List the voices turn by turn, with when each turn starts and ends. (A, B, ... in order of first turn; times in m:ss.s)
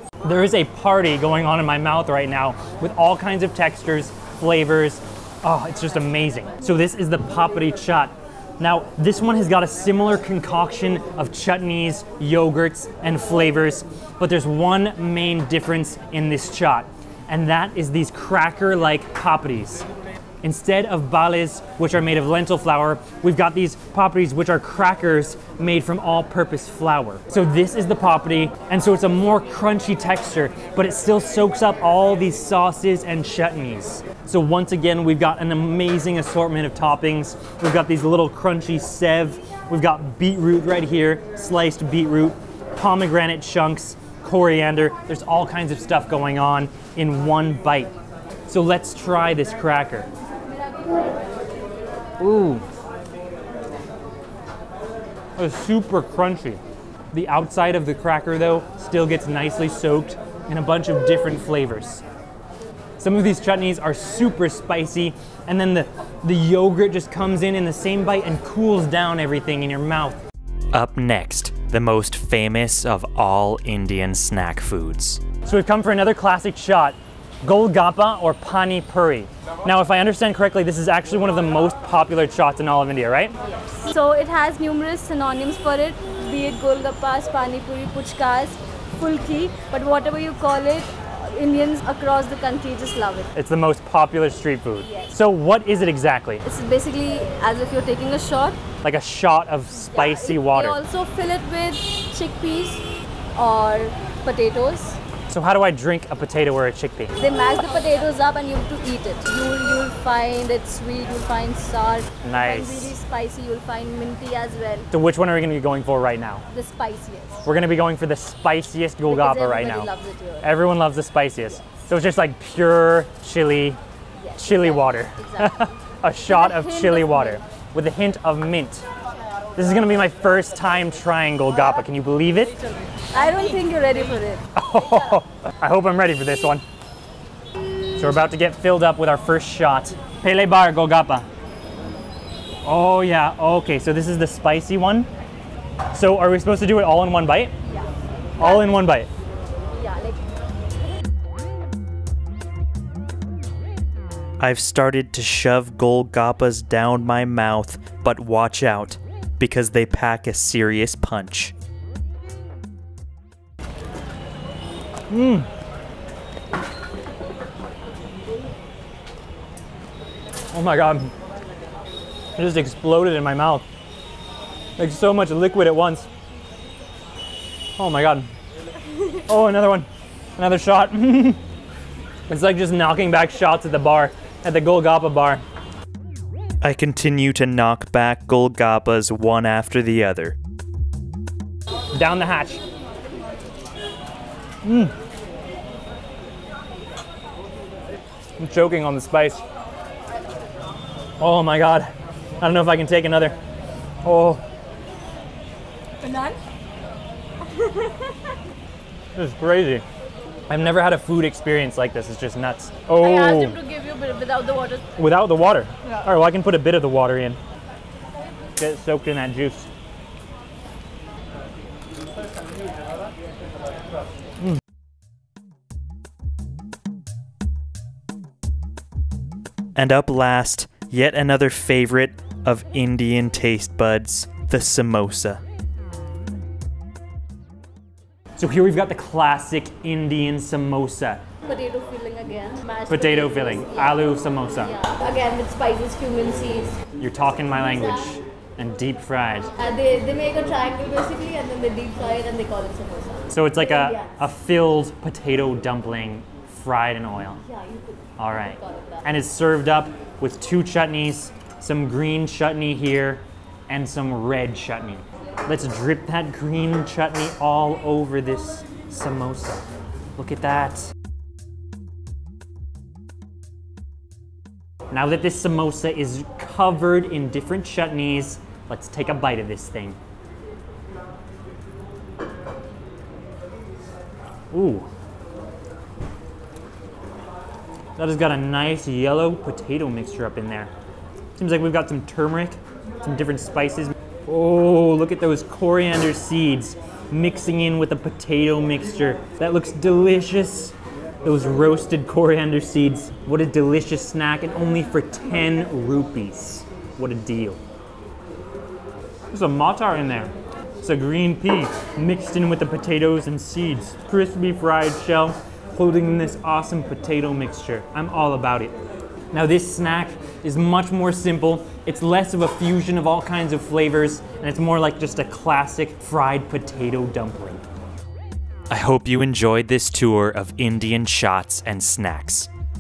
0:00.2-0:19.9 A
0:20.4-0:47.9 A
0:48.5-0:50.1 A
0:52.2-0:52.6 A
0:55.4-0:56.6 A
0:57.1-1:02.0 A
1:03.0-1:10.2 A
1:10.7-1:15.2 B
1:15.3-1:23.4 A
1:23.4-1:33.3 C
1:33.3-1:36.4 A
1:34.8-1:35.1 C
1:36.4-1:38.6 C
1:38.8-1:40.8 A
1:39.7-1:42.8 C
1:43.4-1:45.0 C
1:45.3-1:47.2 A
1:47.2-1:54.9 C
1:52.2-1:53.0 A
1:54.9-1:56.4 A
1:56.5-1:57.4 C
1:57.4-1:59.9 A
1:59.0-2:00.5 C
2:00.4-2:03.8 A
2:04.2-2:07.4 C
2:04.4-2:08.9 A
2:09.6-2:12.5 A
2:13.1-2:15.2 C
2:14.5-2:16.6 A
2:18.0-2:21.3 A
2:22.6-2:25.1 A
2:25.9-2:27.5 A
2:27.6-2:28.8 C
2:28.4-2:29.1 A
2:29.7-2:30.2 C
2:34.4-2:41.5 B
2:45.1-2:45.5 A
2:50.5-2:51.1 A
2:52.4-2:53.6 A
2:54.8-2:56.1 A
2:57.8-2:58.3 A
2:59.2-3:01.4 A
3:02.3-3:05.4 A
3:06.6-3:10.4 B
3:11.9-3:12.6 A
3:14.6-3:14.9 A
3:18.4-3:19.4 A
3:21.2-3:23.4 A
3:24.0-3:24.4 A
3:26.0-3:26.4 C
3:27.5-3:28.2 C
3:29.2-3:29.8 A
3:30.5-3:33.6 A
3:33.0-3:34.9 C
3:35.0-3:37.4 A
3:38.6-3:39.7 A
3:49.8-3:51.6 A
3:49.8-3:55.4 B
3:52.2-3:53.0 A
3:53.6-3:55.4 A
3:58.4-4:01.3 A
4:01.5-4:06.8 C
4:02.9-4:04.7 A
4:07.0-4:09.5 A
4:09.5-4:14.2 C
4:13.3-4:17.4 A
4:17.4-4:19.0 C
4:18.2-4:29.6 A
4:30.2-4:30.9 A
4:34.9-4:40.0 A
4:44.5-4:44.9 A
4:48.0-4:50.7 A
4:51.4-5:07.6 A
5:09.3-5:18.8 A
5:19.3-5:27.6 A
5:28.7-5:32.5 B